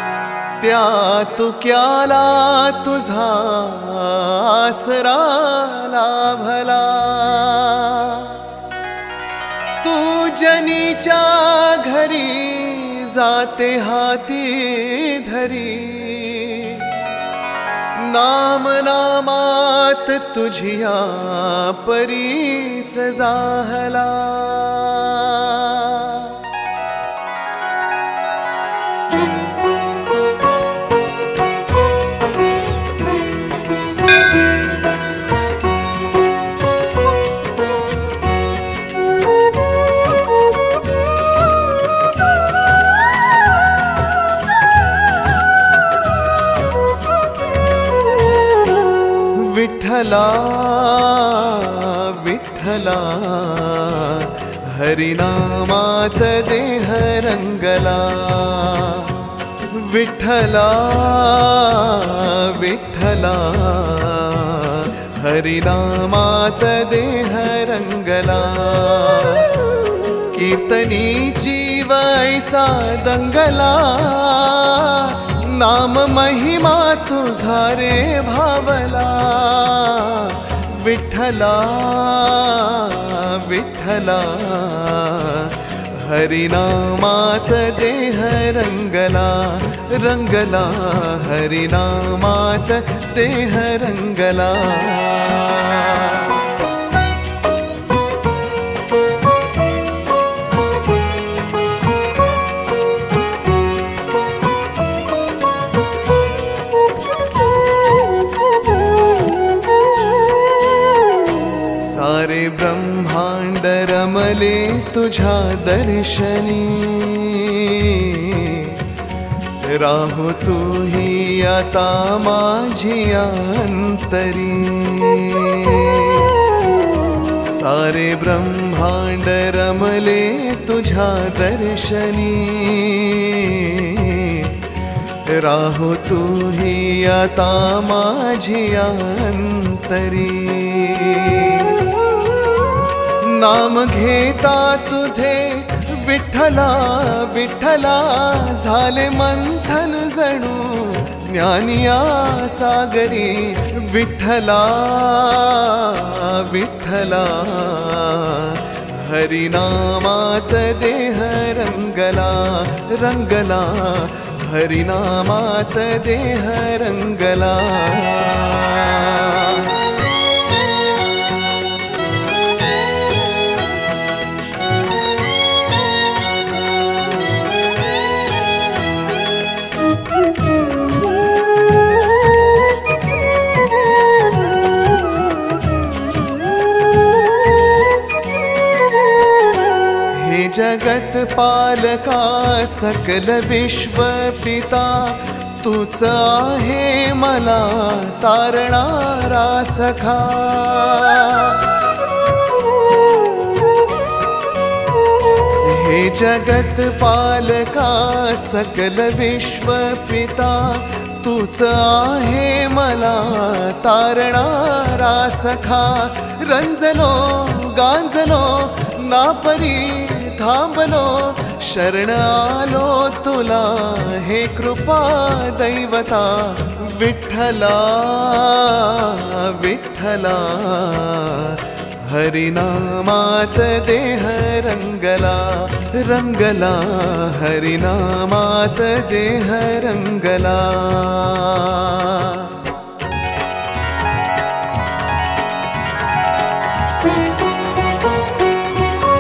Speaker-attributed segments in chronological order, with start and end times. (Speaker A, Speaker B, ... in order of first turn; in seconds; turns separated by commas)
Speaker A: 0.6-8.5, Speaker A: 9.8-17.0, Speaker A: 17.9-26.4, Speaker A: 49.3-69.6, Speaker A: 70.3-96.4, Speaker A: 111.8-118.8, Speaker A: 119.6-126.4, Speaker A: 127.4-134.6, Speaker A: 135.3-141.9, Speaker A: 143.1-169.8, Speaker A: 190.1-201.7, Speaker A: 205.6-242.7